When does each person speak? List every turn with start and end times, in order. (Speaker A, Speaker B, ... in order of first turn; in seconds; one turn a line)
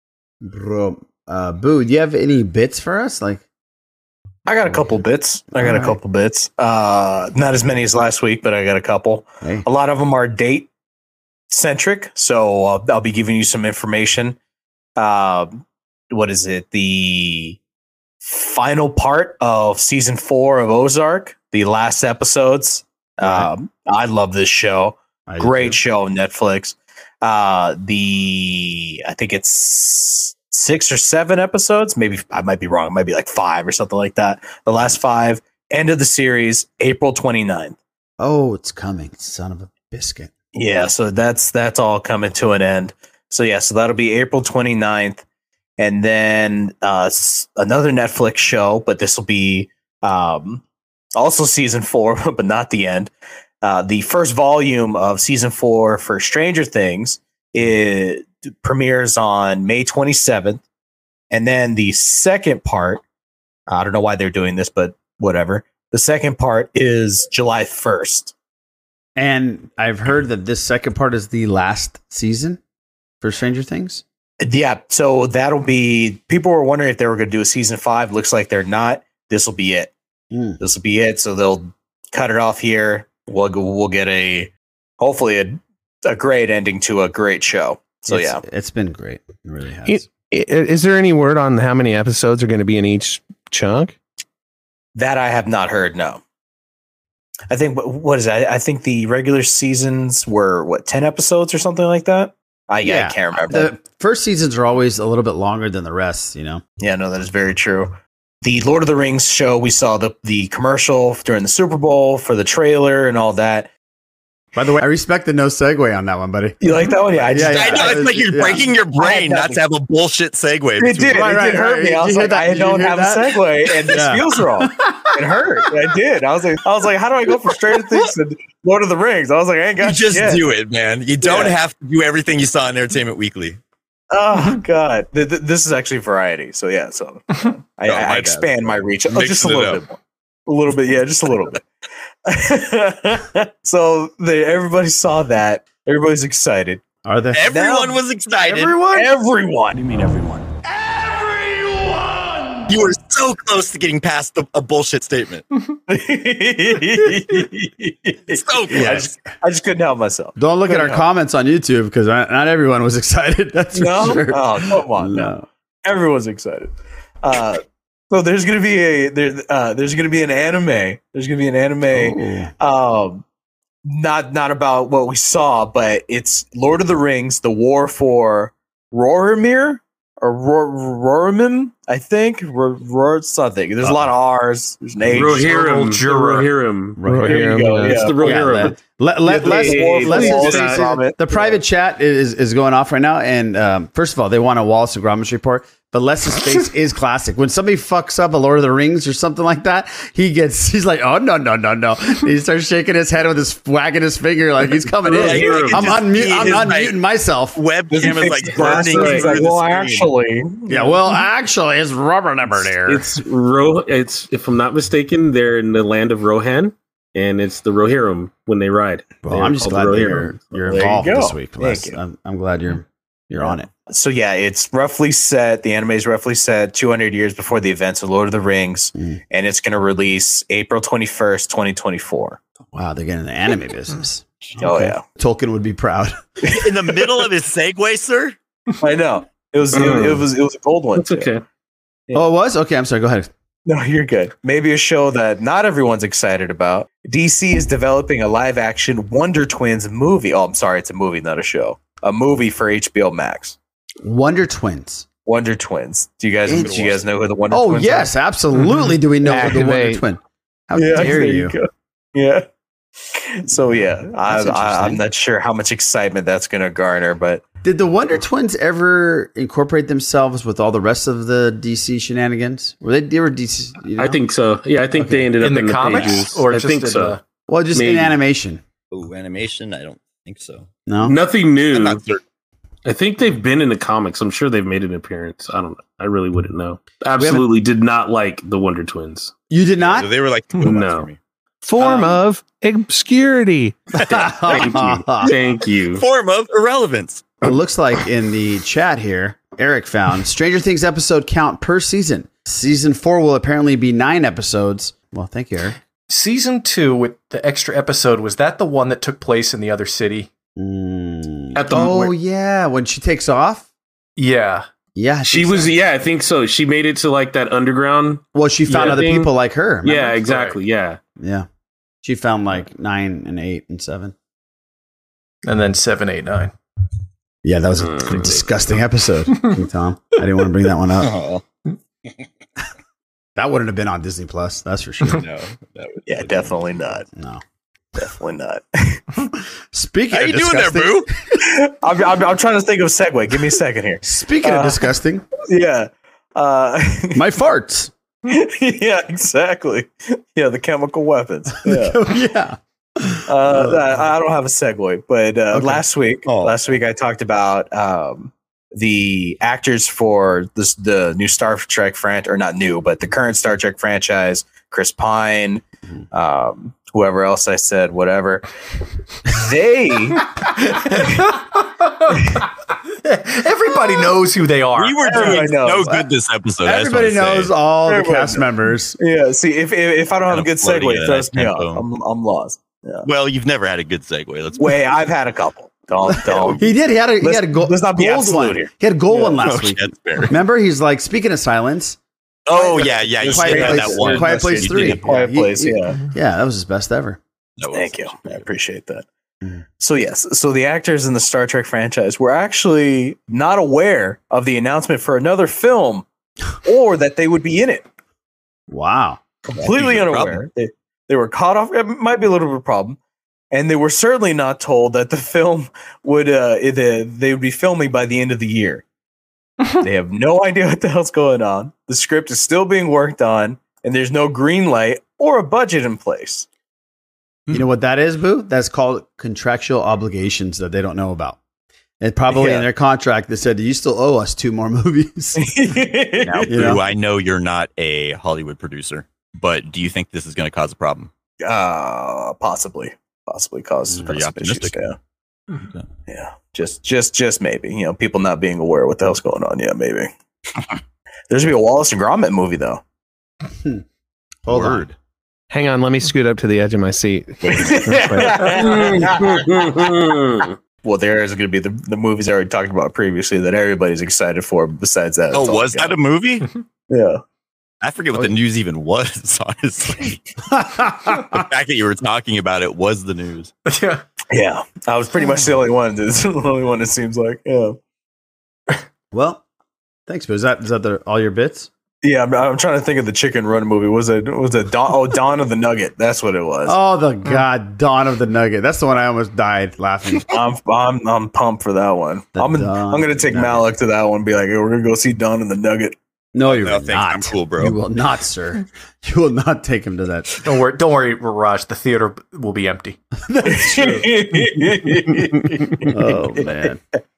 Speaker A: 0.4-3.4
Speaker B: 4.5-10.7
Speaker A: 4.7-5.0
Speaker A: 5.5-6.0
Speaker B: 11.5-14.4
Speaker B: 15.0-17.6
Speaker B: 18.2-37.8
Speaker A: 23.2-23.5
Speaker A: 25.3-25.8
Speaker A: 38.2-40.3
Speaker B: 40.5-45.2
Speaker B: 45.8-50.6
Speaker B: 51.2-53.1
Speaker B: 53.6-60.6
Speaker B: 61.3-63.0
Speaker B: 63.7-68.3
Speaker A: 69.2-72.6
Speaker A: 73.2-74.0
Speaker B: 74.4-79.9
Speaker A: 80.3-80.6
Speaker B: 80.6-88.4
Speaker A: 88.1-90.1
Speaker C: 89.9-94.0
Speaker B: 95.0-96.2
Speaker B: 97.5-103.7
Speaker A: 102.8-106.6
Speaker B: 106.8-113.7
Speaker A: 114.5-116.6
Speaker B: 116.6-118.1
Speaker A: 117.1-118.7
Speaker D: 117.4-121.5
Speaker B: 119.0-119.6
Speaker B: 120.8-130.5
Speaker A: 121.1-125.1
Speaker D: 129.8-133.6
Speaker B: 131.2-131.6
Speaker B: 134.1-141.6
Speaker D: 137.9-139.8
Speaker B: 142.3-146.8
Speaker A: 147.1-147.5
Speaker D: 147.3-148.9
Speaker B: 147.5-148.0
Speaker E: 148.4-149.1
Speaker B: 148.9-149.8
Speaker A: 149.8-150.5
Speaker A: 151.6-152.4
Speaker D: 152.7-155.4
Speaker B: 155.9-161.0
Speaker D: 158.3-159.1
Speaker A: 158.7-159.2
Speaker A: 160.4-165.5
Speaker B: 163.8-165.3
Speaker B: 165.8-173.2
Speaker A: 171.9-172.5
Speaker B: 173.8-185.6
Speaker F: 185.1-190.9
Speaker E: 185.4-186.5
Speaker A: 187.0-187.5
Speaker C: 187.1-188.0
Speaker B: 187.3-188.7
Speaker A: 188.2-207.6
Speaker B: 189.3-191.6
Speaker F: 205.0-206.0
Speaker D: 205.1-207.0
Speaker B: 206.4-206.7
Speaker D: 207.5-210.1
Speaker B: 207.9-211.0
Speaker F: 208.7-209.3
Speaker A: 210.7-213.2
Speaker F: 212.8-221.0
Speaker A: 219.2-223.7
Speaker B: 220.7-222.0
Speaker B: 223.9-232.4
Speaker A: 232.7-236.2
Speaker B: 234.6-235.0
Speaker B: 236.5-237.1
Speaker D: 236.5-238.4
Speaker B: 238.8-241.3
Speaker F: 239.7-240.2
Speaker F: 241.0-241.4
Speaker A: 242.1-243.3
Speaker B: 243.7-253.6
Speaker A: 254.0-255.1
Speaker B: 255.3-258.1
Speaker A: 256.5-257.0
Speaker D: 256.6-257.0
Speaker A: 257.5-261.6
Speaker C: 259.2-260.0
Speaker B: 260.8-262.5
Speaker B: 263.1-267.4
Speaker A: 263.5-265.0
Speaker A: 267.6-274.2
Speaker F: 274.0-277.2
Speaker E: 275.4-277.2
Speaker A: 277.5-278.6
Speaker F: 277.7-278.2
Speaker D: 278.9-280.7
Speaker A: 280.9-281.2
Speaker F: 281.0-282.0
Speaker D: 281.7-282.2
Speaker F: 282.9-289.3
Speaker A: 287.2-287.5
Speaker A: 289.5-290.1
Speaker D: 289.8-291.2
Speaker F: 290.6-291.1
Speaker C: 291.6-293.8
Speaker A: 291.8-292.2
Speaker A: 293.9-295.4
Speaker D: 294.0-294.6
Speaker F: 294.1-296.0
Speaker D: 295.9-297.4
Speaker A: 297.4-305.8
Speaker E: 306.1-310.3
Speaker A: 310.6-313.7
Speaker F: 311.6-312.1
Speaker E: 314.2-314.7
Speaker A: 314.9-315.8
Speaker F: 315.3-319.3
Speaker A: 318.3-320.2
Speaker F: 319.8-321.0
Speaker E: 320.2-320.6
Speaker A: 321.2-321.5
Speaker A: 322.0-324.1
Speaker E: 325.4-326.5
Speaker A: 327.4-331.1
Speaker F: 327.8-328.3
Speaker D: 331.0-331.4
Speaker A: 333.4-335.2
Speaker D: 335.1-336.3
Speaker B: 336.1-337.1
Speaker A: 337.1-337.4
Speaker B: 338.0-339.2
Speaker A: 339.7-341.4
Speaker D: 340.1-341.1
Speaker B: 341.4-344.9
Speaker A: 344.0-345.3
Speaker B: 345.4-347.2
Speaker A: 347.1-347.9
Speaker B: 348.3-352.0
Speaker A: 351.6-353.9
Speaker B: 353.3-368.4
Speaker D: 356.3-356.6
Speaker B: 369.3-370.2
Speaker E: 370.7-372.3
Speaker E: 373.0-375.4
Speaker D: 374.8-377.5
Speaker B: 375.1-376.0
Speaker A: 376.6-379.0
Speaker B: 377.9-378.5
Speaker B: 379.0-383.1
Speaker D: 380.3-381.8
Speaker D: 383.1-385.0
Speaker B: 384.6-386.6
Speaker A: 386.1-392.0
Speaker D: 386.3-386.6
Speaker B: 387.2-388.7
Speaker D: 389.4-390.4
Speaker D: 392.5-395.1
Speaker A: 392.6-397.2
Speaker B: 392.8-396.0
Speaker D: 397.6-398.4
Speaker B: 397.7-399.1
Speaker B: 399.8-406.1
Speaker B: 406.6-407.9
Speaker A: 408.7-409.2
Speaker B: 409.5-413.0
Speaker D: 409.6-410.4
Speaker B: 413.5-418.8
Speaker B: 419.8-426.5
Speaker A: 427.5-431.4
Speaker A: 432.0-435.8
Speaker B: 432.3-432.6
Speaker B: 435.4-436.8
Speaker D: 436.2-441.1
Speaker A: 436.5-436.8
Speaker B: 441.4-445.0
Speaker D: 444.0-444.8
Speaker B: 446.1-450.1
Speaker B: 451.3-452.8
Speaker A: 454.4-454.9
Speaker D: 454.5-454.9
Speaker C: 455.5-458.6
Speaker B: 457.5-459.5
Speaker F: 458.5-460.6
Speaker B: 460.8-466.0
Speaker D: 465.3-466.5
Speaker B: 466.9-467.2
Speaker D: 467.8-470.3
Speaker A: 470.5-471.4
Speaker D: 471.1-473.5
Speaker E: 473.7-474.0
Speaker B: 474.3-477.8
Speaker A: 479.1-479.4
Speaker A: 480.1-481.7
Speaker B: 482.0-486.8
Speaker A: 486.7-490.3
Speaker B: 490.3-496.0
Speaker A: 492.4-493.7
Speaker A: 496.3-500.4
Speaker D: 496.4-497.8
Speaker E: 500.4-503.0
Speaker A: 503.3-504.1
Speaker B: 503.4-506.0
Speaker A: 505.9-506.8